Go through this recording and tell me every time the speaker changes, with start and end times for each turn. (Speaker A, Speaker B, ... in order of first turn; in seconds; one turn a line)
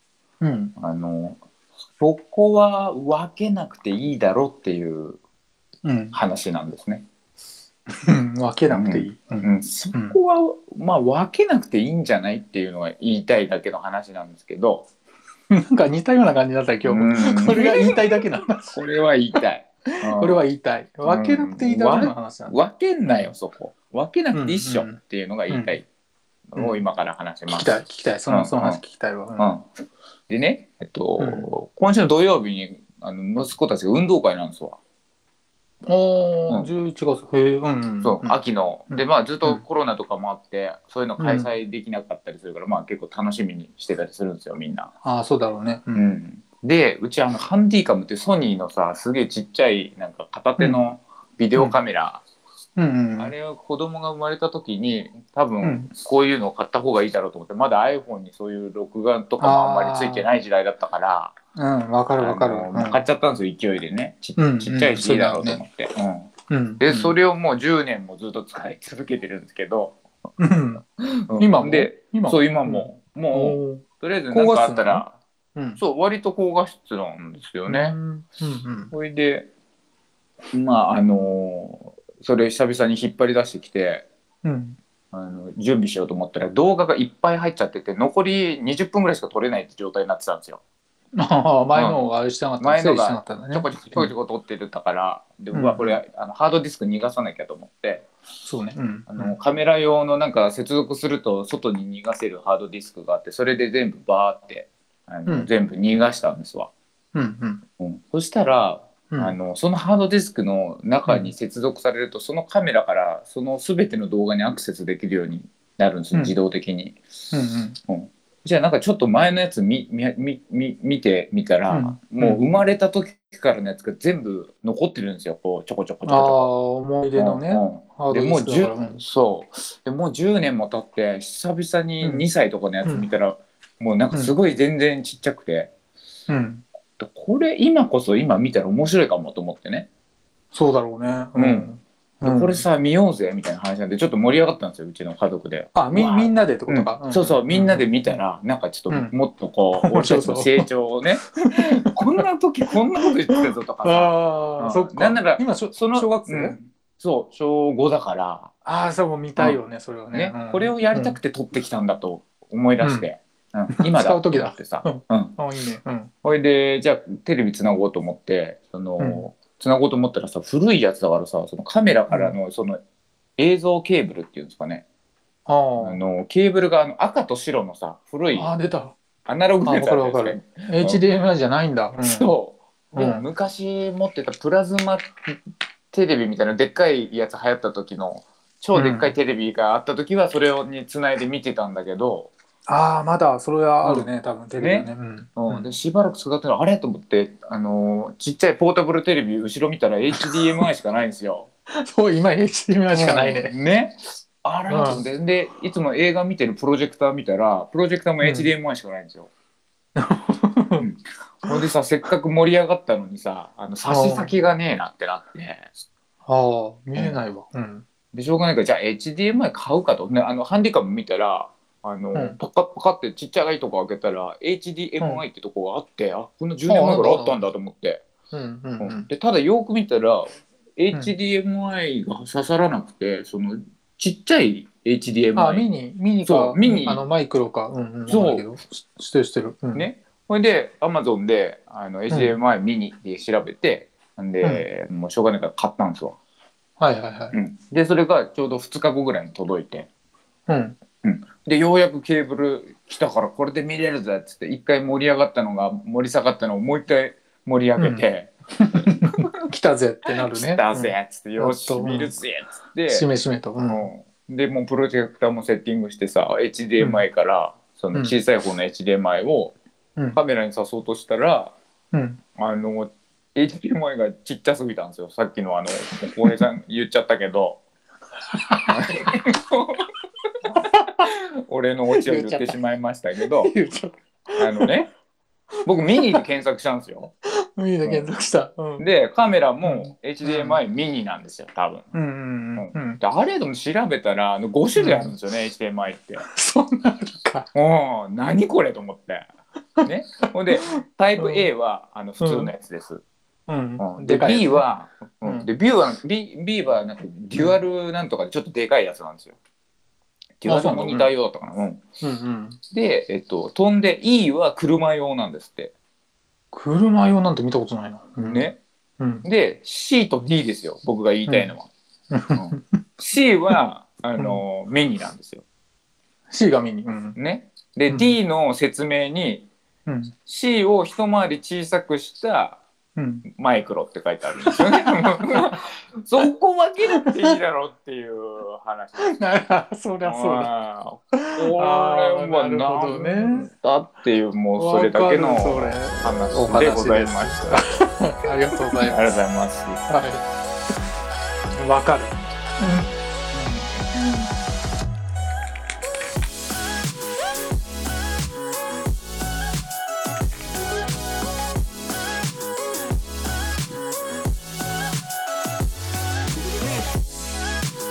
Speaker A: 0.4-0.7
Speaker B: 0.8-1.4
Speaker B: 2.0-5.2
Speaker A: 5.8-6.2
Speaker B: 6.1-7.0
Speaker A: 8.0-10.2
Speaker B: 8.7-14.9
Speaker A: 15.5-18.8
Speaker B: 16.9-18.2
Speaker B: 18.7-20.5
Speaker A: 20.0-22.6
Speaker B: 21.1-25.9
Speaker A: 24.3-25.0
Speaker A: 25.5-25.8
Speaker B: 26.5-28.8
Speaker A: 27.5-29.5
Speaker B: 29.4-29.6
Speaker B: 30.3-34.8
Speaker A: 31.2-31.5
Speaker A: 35.9-38.4
Speaker B: 38.0-44.9
Speaker A: 38.9-39.6
Speaker A: 41.2-41.5
Speaker A: 45.0-46.0
Speaker B: 45.9-52.2
Speaker A: 52.8-53.3
Speaker B: 53.2-61.3
Speaker A: 55.6-55.9
Speaker A: 59.4-60.3
Speaker A: 61.5-63.0
Speaker B: 62.2-70.0
Speaker A: 64.4-65.6
Speaker A: 66.5-67.1
Speaker A: 70.4-70.8
Speaker B: 71.3-75.2
Speaker A: 71.4-75.0
Speaker A: 75.5-75.8
Speaker B: 75.8-78.0
Speaker A: 77.7-78.9
Speaker B: 78.9-79.5
Speaker B: 80.5-84.0
Speaker A: 84.4-84.8
Speaker B: 85.1-90.6
Speaker A: 91.1-94.1
Speaker B: 92.6-98.1
Speaker A: 95.5-96.0
Speaker A: 98.4-99.3
Speaker B: 99.1-106.7
Speaker A: 107.1-107.6
Speaker B: 107.8-117.3
Speaker A: 109.1-109.3
Speaker A: 111.1-111.3
Speaker A: 117.3-117.8
Speaker B: 117.9-126.5
Speaker A: 121.7-122.5
Speaker A: 126.0-129.0
Speaker B: 127.1-135.7
Speaker A: 136.3-136.6
Speaker B: 137.0-139.9
Speaker A: 140.5-142.6
Speaker B: 141.3-158.5
Speaker A: 145.7-147.8
Speaker A: 148.9-149.1
Speaker A: 149.8-150.7
Speaker A: 151.5-152.2
Speaker A: 153.1-156.6
Speaker A: 158.6-161.2
Speaker B: 160.1-165.4
Speaker A: 162.8-163.1
Speaker A: 163.7-166.1
Speaker B: 166.2-172.8
Speaker A: 169.0-169.2
Speaker A: 172.1-172.4
Speaker B: 173.4-174.8
Speaker A: 175.5-176.0
Speaker B: 175.8-178.5
Speaker A: 178.3-178.9
Speaker B: 179.3-181.0
Speaker A: 179.6-182.3
Speaker B: 182.0-185.2
Speaker A: 182.9-183.2
Speaker B: 185.9-192.3
Speaker A: 188.7-189.1
Speaker A: 192.7-195.7
Speaker B: 193.8-201.5
Speaker A: 200.1-200.6
Speaker A: 201.9-203.5
Speaker B: 202.9-209.3
Speaker A: 204.7-205.0
Speaker A: 208.2-208.5
Speaker A: 209.9-210.8
Speaker B: 210.8-215.7
Speaker A: 213.9-214.3
Speaker A: 216.2-217.8
Speaker B: 218.1-228.0
Speaker A: 226.7-227.4
Speaker A: 228.3-229.1
Speaker B: 228.8-235.7
Speaker A: 235.3-239.9
Speaker B: 236.2-237.0
Speaker B: 238.1-238.4
Speaker B: 239.7-246.2
Speaker A: 242.1-242.3
Speaker A: 246.8-247.3
Speaker B: 247.3-249.9
Speaker A: 250.5-250.8
Speaker B: 251.0-259.2
Speaker A: 257.8-258.0
Speaker A: 258.6-262.2
Speaker B: 260.1-263.1
Speaker A: 262.9-263.9
Speaker B: 263.6-269.6
Speaker A: 266.8-267.0
Speaker B: 270.1-271.5
Speaker A: 271.9-272.2
Speaker B: 272.4-277.6
Speaker A: 278.5-278.7
Speaker B: 278.7-279.8
Speaker B: 280.5-283.5
Speaker A: 280.6-281.0
Speaker A: 281.9-282.6
Speaker A: 283.2-284.8
Speaker B: 284.4-284.9
Speaker B: 285.6-287.1
Speaker A: 285.9-286.2
Speaker A: 287.6-288.8
Speaker B: 288.8-291.9
Speaker A: 289.6-290.6
Speaker A: 291.9-293.0
Speaker B: 292.6-296.2
Speaker A: 294.8-295.1
Speaker A: 296.2-297.5
Speaker B: 297.5-299.3
Speaker B: 299.9-303.0
Speaker A: 300.5-301.4
Speaker A: 302.2-302.5
Speaker A: 303.5-304.6
Speaker B: 303.8-309.4
Speaker B: 310.4-311.8
Speaker A: 310.4-311.1
Speaker A: 312.0-312.6
Speaker B: 312.7-315.7
Speaker A: 316.5-319.2
Speaker B: 318.2-318.6
Speaker B: 319.2-321.7
Speaker A: 322.1-322.6
Speaker B: 322.3-325.4
Speaker A: 324.2-324.4
Speaker A: 326.3-327.2
Speaker B: 327.1-329.5
Speaker A: 329.9-330.1
Speaker B: 330.2-332.6
Speaker A: 332.9-333.2
Speaker B: 333.3-339.2
Speaker A: 334.4-335.6
Speaker A: 337.0-337.3
Speaker A: 339.0-340.5
Speaker B: 340.0-347.8
Speaker A: 341.2-343.5
Speaker A: 344.6-349.0
Speaker B: 348.7-349.8
Speaker A: 349.9-350.2
Speaker A: 351.6-353.6